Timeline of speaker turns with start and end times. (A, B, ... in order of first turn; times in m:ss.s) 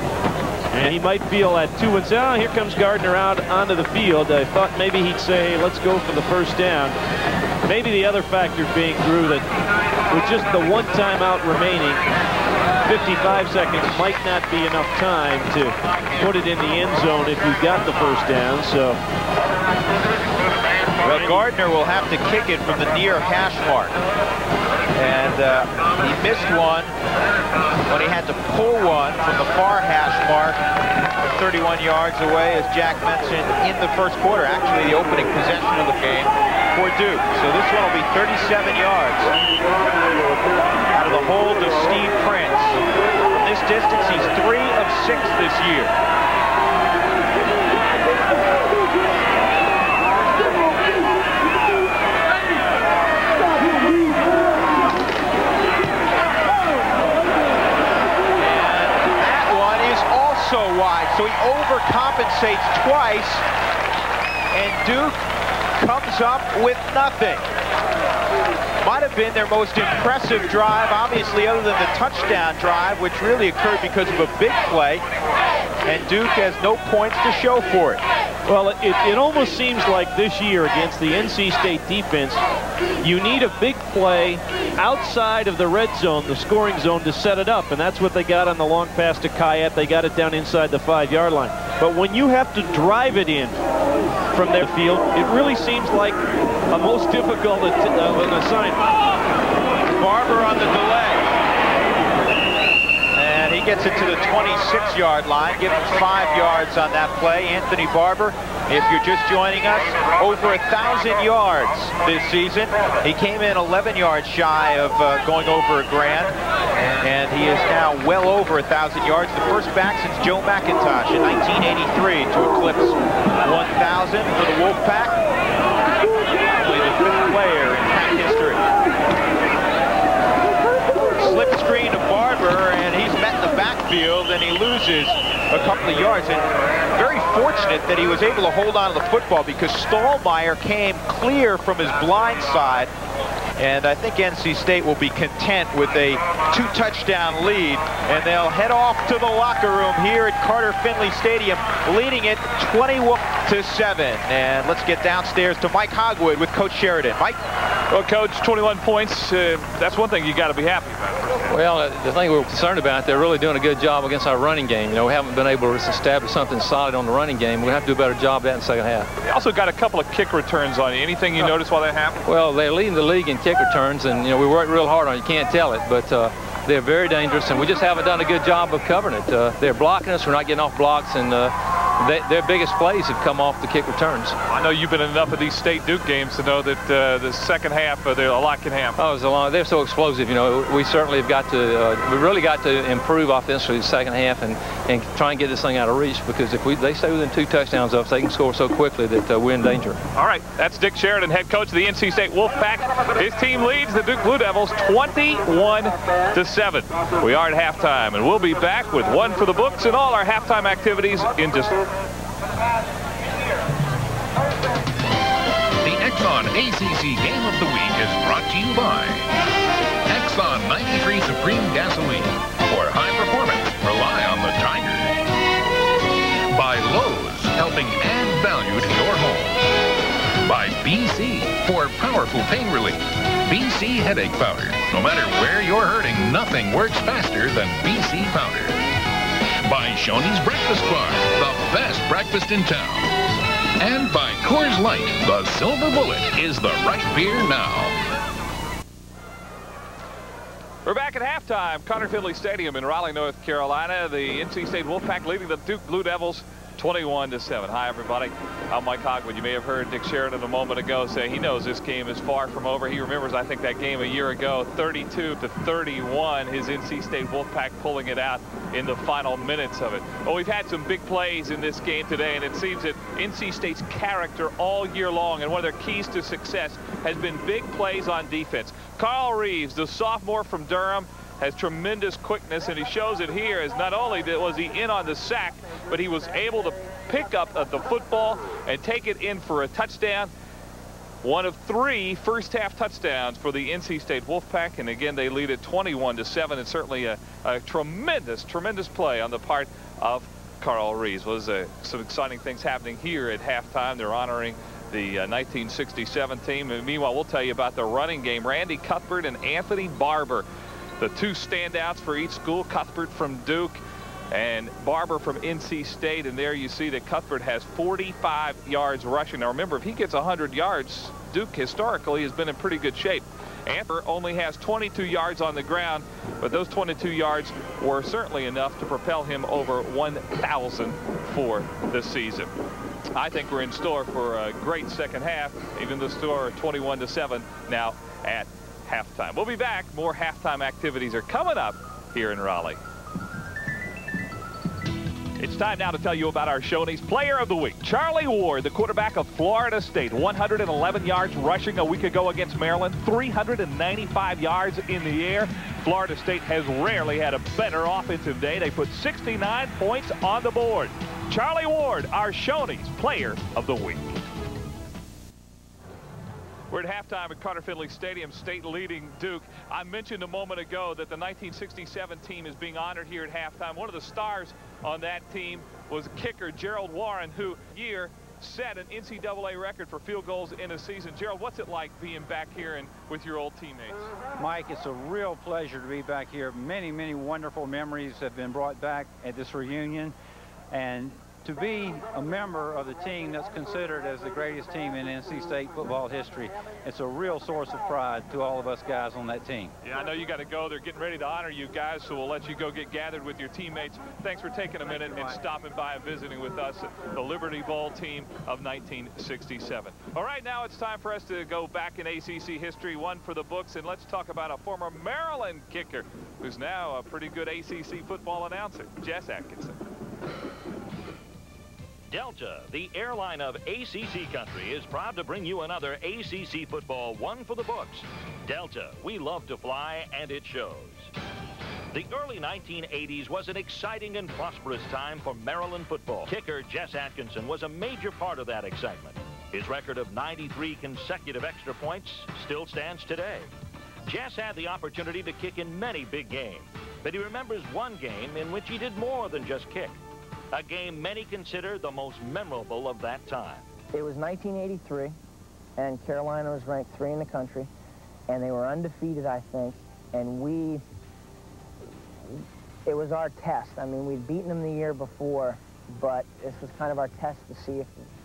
0:00.7-0:07.0 A
0:07.6-0:09.5 A
0:10.1-0:12.0 A
0:12.8-0:19.0 A
0:21.0-0:24.0 B
0:21.0-0:21.4 A
0:24.9-0:26.9 B
0:27.9-0:30.6 B
0:31.2-0:39.4 B
0:40.8-0:46.0 B
0:58.4-1:03.5 B
1:04.5-1:05.2 B
1:05.8-1:07.5 B
1:08.8-1:15.0 B
1:15.8-1:18.0 B
1:18.5-1:22.4 A
1:23.0-1:33.6 A
1:34.3-1:38.9 A
1:39.9-1:41.4 B
1:43.1-1:56.3 B
1:57.0-2:05.2 B
2:06.5-2:08.6 B
2:11.1-2:22.9 B
2:23.6-2:37.4 B
2:37.9-2:41.5 C
2:41.5-2:49.1 D
2:49.2-2:52.2 C
2:52.2-3:04.4 D
3:04.5-3:09.0 C
3:09.0-3:20.0 D
3:20.1-3:31.8 C
3:35.8-3:39.4 E
3:40.1-3:45.2 E
3:46.5-3:49.6 E
3:50.4-3:58.8 E
3:59.6-4:03.1 E
4:03.8-4:08.0 E
4:10.8-4:50.3 C
4:51.2-5:10.4 C
5:11.0-5:32.5 C
5:33.1-5:42.8 C
5:45.4-6:04.2 C
6:06.7-6:24.0 C
6:24.4-6:30.1 F
6:30.7-6:39.7 F
6:39.8-6:59.8 C
6:45.0-6:45.3 F
7:02.1-7:11.1 G
7:11.9-7:23.5 G
7:24.0-7:30.0 G
7:30.5-7:33.6 G
7:33.9-7:35.1 H
7:35.8-7:37.7 H
7:38.3-7:40.8 H
7:42.8-7:47.9 H